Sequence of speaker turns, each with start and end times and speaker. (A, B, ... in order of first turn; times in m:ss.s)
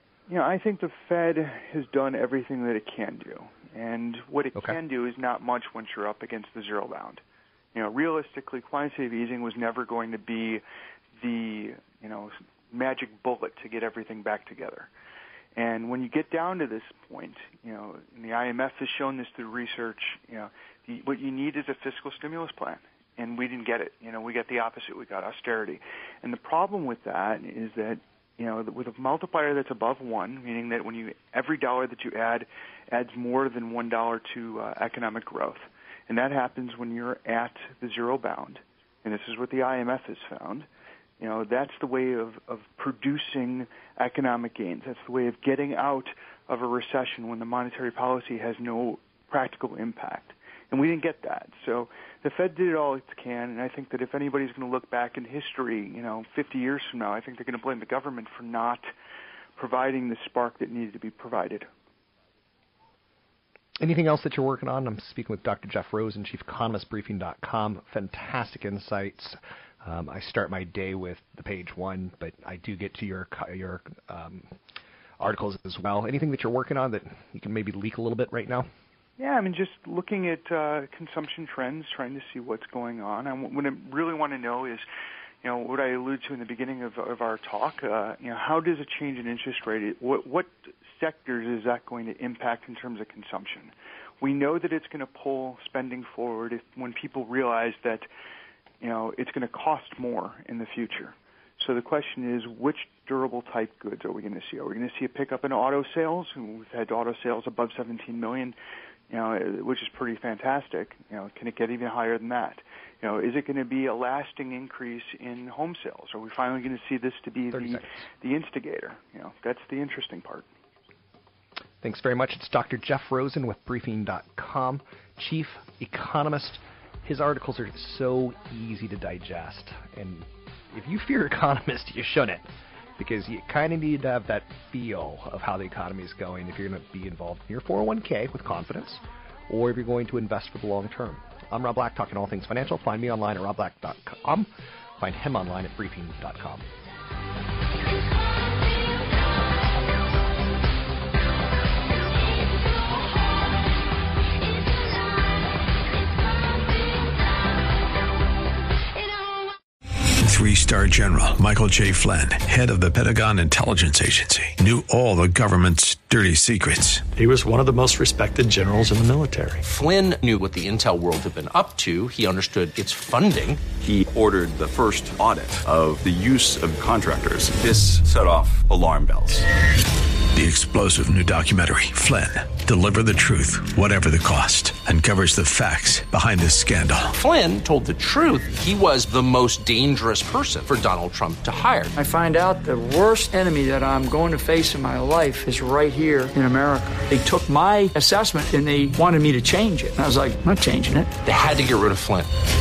0:00.3-0:07.2 A
0:07.7-0:10.6 A
0:11.2-0:14.9 A
0:15.6-0:40.7 A
0:41.2-0:58.9 A
0:59.6-1:01.7 A
1:03.8-1:14.5 B
1:15.2-1:18.7 B
1:19.2-1:24.8 A
1:25.4-1:38.1 A
1:38.8-1:48.6 A
1:49.1-2:00.5 A
1:57.5-1:57.8 B
2:01.8-2:26.6 B
2:40.2-2:47.1 C
2:47.2-2:49.6 D
2:49.6-2:53.6 E
2:53.8-2:59.4 F
3:00.3-3:07.1 C
3:07.1-3:11.9 E
3:12.0-3:21.1 G
3:21.2-3:22.3 E